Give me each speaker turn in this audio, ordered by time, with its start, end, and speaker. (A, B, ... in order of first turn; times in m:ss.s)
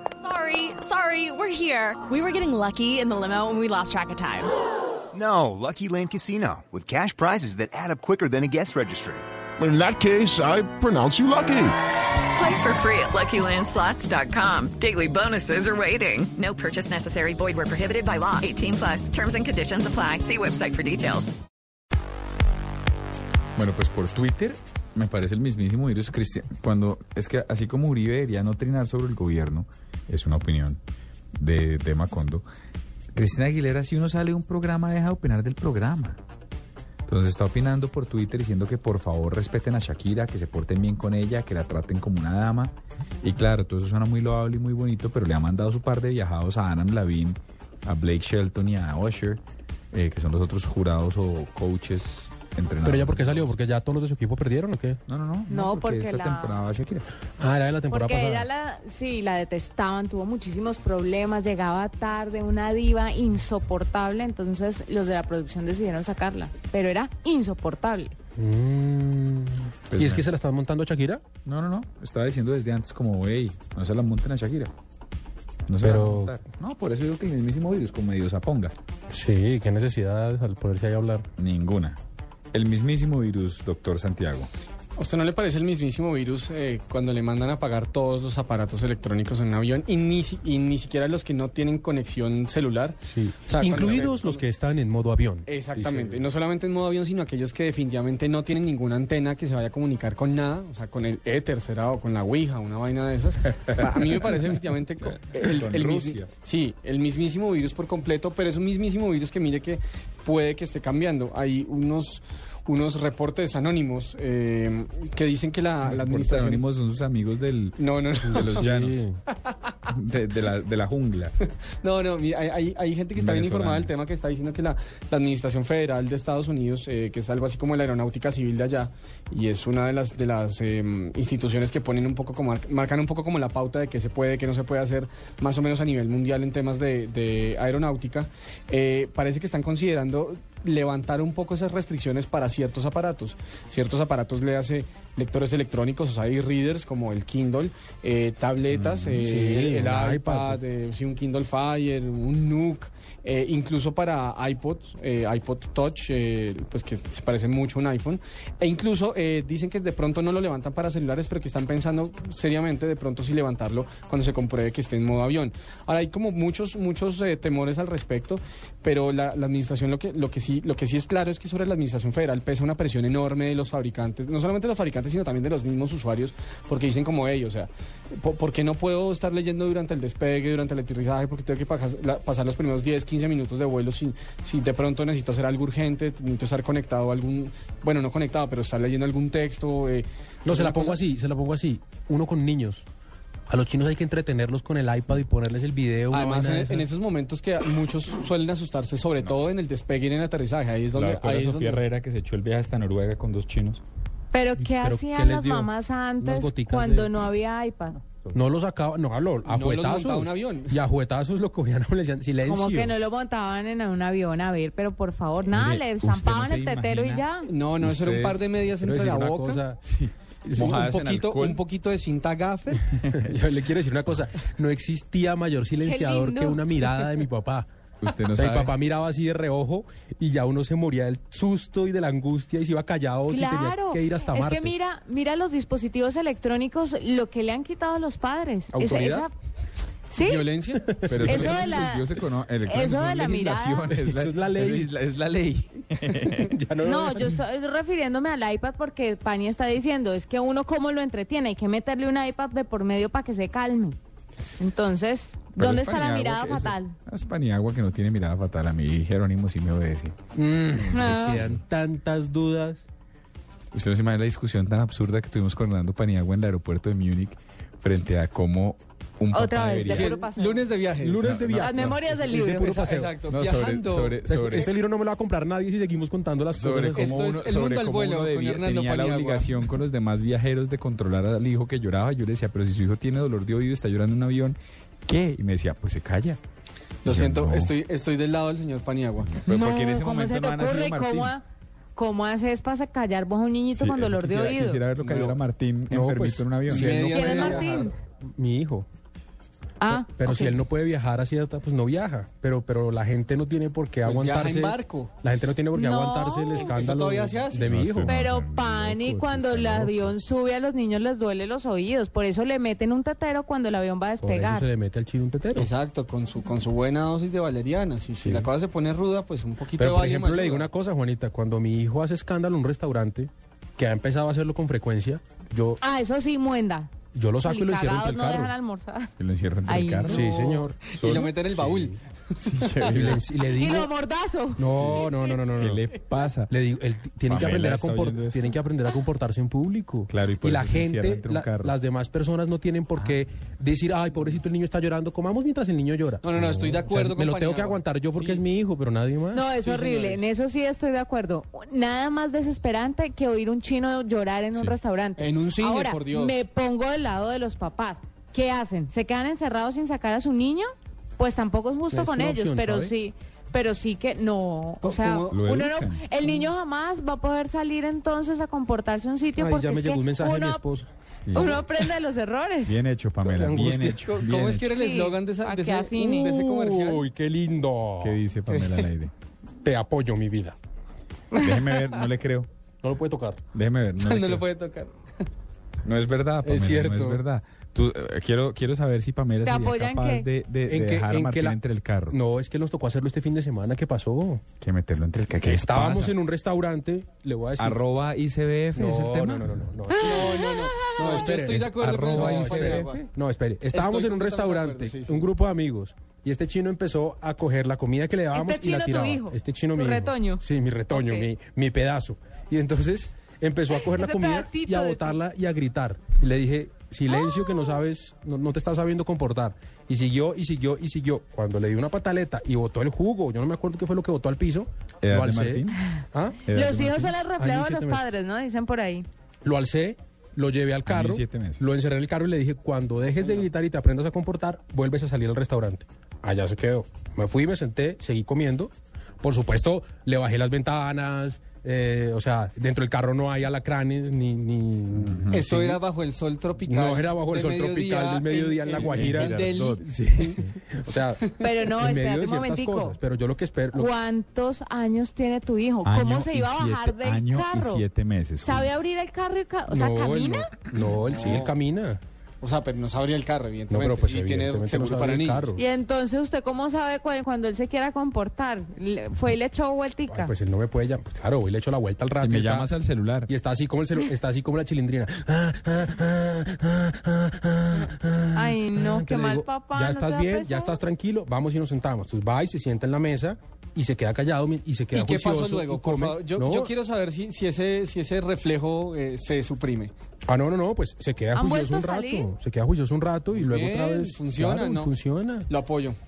0:00.2-0:04.5 A
0:05.1-0:09.2 B
0:09.6-0:11.8 C
0:12.3-0:21.4 D
0:23.6-0:30.8 E
0:31.4-0:32.4 E
0:33.2-0:36.2 E
0:37.1-0:49.4 E
0:49.9-0:53.5 E
0:52.8-0:55.0 F
0:55.1-0:57.1 E
0:55.5-0:56.6 G
0:57.4-0:58.5 F
0:57.9-1:08.2 G
1:08.4-1:11.2 F
1:09.9-1:10.2 E
1:11.4-1:14.7 E
1:15.7-1:18.8 E
1:15.8-1:16.4 F
1:19.1-1:21.3 F
1:21.4-1:22.0 E
1:22.5-1:24.5 E
1:25.0-1:33.0 H
1:33.1-1:36.2 F
1:33.5-1:34.4 H
1:35.5-1:56.6 H
1:45.4-1:46.3 E
1:55.8-1:59.1 E
1:57.8-1:58.7 H
1:58.5-1:59.2 F
1:59.9-2:01.4 E
2:01.8-3:11.0 H
2:03.2-2:03.9 E
2:28.7-2:29.3 E
2:29.2-2:30.6 F
3:10.5-3:12.8 F
3:13.5-3:16.9 F
3:16.1-3:21.9 H
3:20.9-3:23.8 E
3:24.3-3:28.0 G
3:24.6-3:27.2 F
3:28.3-3:33.0 F
3:29.5-3:30.7 H
3:32.4-3:37.5 G
3:35.5-3:37.2 E
3:37.5-3:39.6 H
3:37.8-3:38.5 E
3:38.8-3:39.8 F
3:39.8-3:41.6 E
3:40.4-3:40.8 F
3:40.6-3:42.9 H
3:43.1-3:47.7 F
3:43.1-3:43.3 E
3:45.8-3:46.8 G
3:48.0-3:48.7 E
3:48.3-3:54.7 F
3:53.3-3:59.3 G
3:58.7-3:59.3 F
4:00.1-4:00.5 G
4:00.2-4:01.5 H
4:00.9-4:01.3 F
4:01.1-4:06.5 E
4:01.2-4:02.1 G
4:02.6-4:03.9 G
4:04.0-4:04.9 F
4:06.1-4:07.4 F
4:06.8-4:14.0 G
4:14.6-4:17.0 G
4:15.5-4:20.2 E
4:20.4-4:22.8 F
4:20.9-4:21.4 G
4:21.0-4:21.6 E
4:23.7-4:30.1 E
4:29.3-4:30.7 G
4:29.9-4:31.3 H
4:31.0-4:33.1 F
4:31.2-4:32.0 E
4:31.5-4:32.8 G
4:32.2-4:34.6 H
4:33.3-4:34.7 E
4:34.3-4:37.2 F
4:36.5-4:46.4 E
4:36.9-4:39.5 H
4:47.0-4:49.4 H
4:47.1-4:47.7 E
4:49.3-4:51.3 E
4:49.5-4:51.4 G
4:52.0-4:54.8 G
4:53.8-4:57.4 E
4:55.0-4:55.4 H
4:55.9-4:58.9 F
4:56.6-4:57.9 H
4:57.1-4:57.9 G
4:59.8-5:00.6 G
4:59.9-5:08.2 F
5:04.0-5:05.1 H
5:05.7-5:06.8 G
5:06.5-5:07.7 H
5:07.6-5:10.1 E
5:08.0-5:14.7 G
5:14.2-5:15.7 F
5:15.6-5:20.7 H
5:18.2-5:18.5 F
5:19.8-5:25.8 F
5:25.8-5:26.9 G
5:27.1-5:28.6 F
5:27.4-5:29.1 G
5:29.2-5:30.3 E
5:29.7-5:30.3 G
5:30.1-5:30.8 F
5:30.4-5:33.1 H
5:30.9-5:31.9 E
5:32.5-5:33.2 E
5:32.9-5:33.9 F
5:33.5-5:34.7 G
5:34.6-5:35.9 F
5:34.7-5:36.5 E
5:36.5-5:49.5 F
5:37.3-5:38.5 E
5:40.1-5:41.7 E
5:46.2-5:48.4 H
5:49.3-6:10.6 G
5:49.6-5:50.3 H
5:55.2-5:56.4 H
6:01.9-6:03.0 F
6:04.8-6:05.4 H
6:05.3-6:06.0 E
6:09.4-6:10.9 F
6:11.3-6:11.6 E
6:11.3-6:12.8 G
6:12.7-6:14.7 E
6:13.2-6:14.0 F
6:14.0-6:17.0 H
6:14.7-6:16.3 G
6:16.1-6:18.2 F
6:18.0-6:19.1 E
6:18.5-6:18.9 H
6:19.6-6:20.6 F
6:21.3-6:21.6 G
6:21.4-6:22.5 E
6:22.8-6:23.4 F
6:23.5-6:24.4 E
6:24.0-6:25.2 H
6:25.8-6:32.2 E
6:26.4-6:27.2 F
6:29.4-6:30.3 G
6:30.7-6:34.4 F
6:34.6-6:36.2 E
6:35.4-6:37.8 F
6:37.6-6:39.5 E
6:38.7-7:06.4 F
6:39.9-6:41.0 G
6:40.0-6:43.0 H
6:41.9-6:43.0 E
6:43.7-6:45.3 H
6:48.3-6:51.3 G
6:53.7-6:55.2 G
6:57.1-6:57.8 G
7:05.0-7:05.8 E
7:06.5-7:07.2 E
7:06.5-7:09.1 G
7:07.3-7:08.1 F
7:09.4-7:25.8 F
7:10.9-7:11.7 E
7:25.0-7:25.5 E
7:25.3-7:30.4 H
7:26.6-7:33.9 F
7:28.7-7:30.4 E
7:31.4-7:33.0 G
7:33.7-7:37.8 G
7:35.8-7:38.7 E
7:38.4-7:40.5 G
7:39.7-7:42.0 F
7:41.1-7:41.5 H
7:42.4-7:45.5 H
7:43.7-7:45.6 F
7:45.6-7:50.3 G
7:50.1-7:52.7 F
7:52.2-7:53.3 E
7:53.3-8:06.7 F
7:58.3-8:00.8 G
8:04.9-8:09.9 H
8:10.3-8:15.5 F
8:11.3-8:12.3 G
8:13.3-8:14.9 H
8:15.5-8:16.0 H